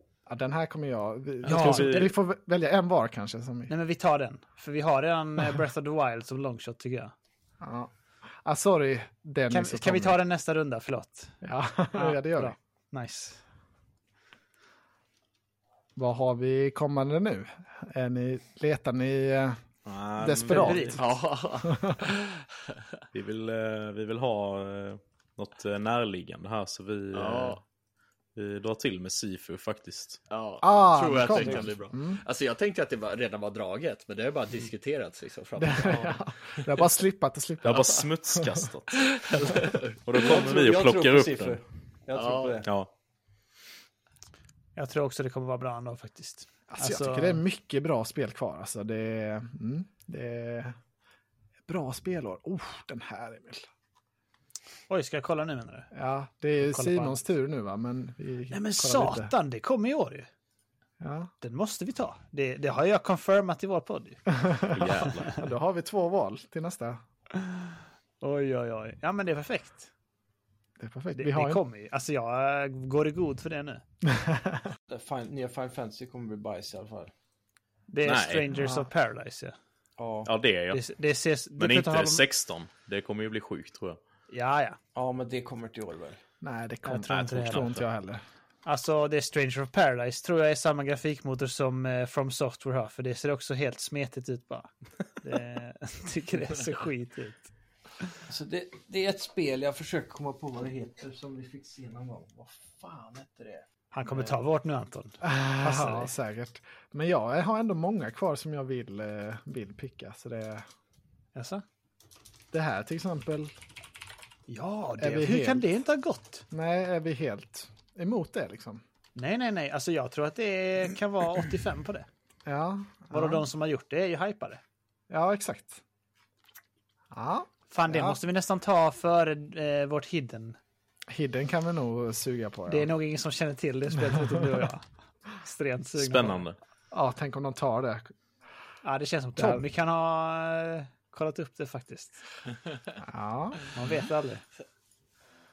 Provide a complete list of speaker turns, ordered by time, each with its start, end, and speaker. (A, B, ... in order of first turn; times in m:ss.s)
0:00.3-0:03.7 A
0:01.4-0:02.1 B
0:01.4-0:02.1 C
0:03.7-0:07.1 B
0:07.6-0:07.9 A
0:08.4-0:10.2 A
0:09.5-0:11.4 B
0:11.4-0:12.6 A
0:11.9-0:13.4 B
0:16.0-0:19.6 A
0:19.9-0:21.0 C
0:20.2-0:21.0 A
0:20.5-0:21.0 B
0:21.0-0:22.4 D
0:23.1-0:27.6 C
0:27.1-0:27.6 D
0:28.4-0:30.2 C
0:30.3-0:36.7 D
0:30.6-0:32.2 A
0:31.3-0:31.7 E
0:35.6-0:38.7 A
0:37.6-0:39.5 C
0:39.1-0:40.0 D
0:40.0-0:41.6 C
0:40.1-0:42.7 E
0:42.1-0:42.6 D
0:42.6-0:42.9 C
0:44.8-0:47.4 B
0:46.7-0:50.8 A
0:51.7-0:53.7 A
0:54.9-0:55.9 B
0:55.9-0:59.3 A
0:56.6-0:57.2 B
0:58.5-1:00.3 B
1:01.0-1:01.3 A
1:01.4-1:04.3 B
1:04.4-1:07.0 A
1:04.7-1:05.4 C
1:05.0-1:05.4 B
1:07.4-1:09.9 B
1:10.8-1:11.6 A
1:11.2-1:13.8 B
1:14.1-1:14.7 A
1:14.9-1:17.1 E
1:17.9-1:19.6 B
1:18.0-1:18.5 C
1:18.5-1:18.9 A
1:20.0-1:20.3 E
1:20.3-1:20.8 C
1:20.7-1:22.2 B
1:21.6-1:24.0 C
1:24.3-1:24.8 B
1:25.0-1:26.2 E
1:26.4-1:28.2 A
1:26.8-1:27.7 B
1:27.1-1:27.8 C
1:28.6-1:37.5 B
1:38.3-1:44.4 E
1:43.9-1:46.1 B
1:45.2-1:50.6 A
1:51.4-1:51.6 B
1:52.5-1:53.5 A
1:54.5-1:56.4 B
1:55.0-1:55.7 A
1:56.5-1:58.8 A
1:59.2-2:02.1 B
2:02.5-2:03.5 A
2:03.1-2:04.6 B
2:05.1-2:05.8 A
2:07.1-2:08.2 A
2:07.7-2:10.6 B
2:11.1-2:12.9 A
2:12.7-2:14.8 B
2:14.0-2:14.6 A
2:15.4-2:16.4 B
2:16.0-2:16.6 C
2:16.9-2:18.1 A
2:18.8-2:22.2 B
2:19.4-2:19.6 A
2:23.0-2:23.6 A
2:23.7-2:24.4 B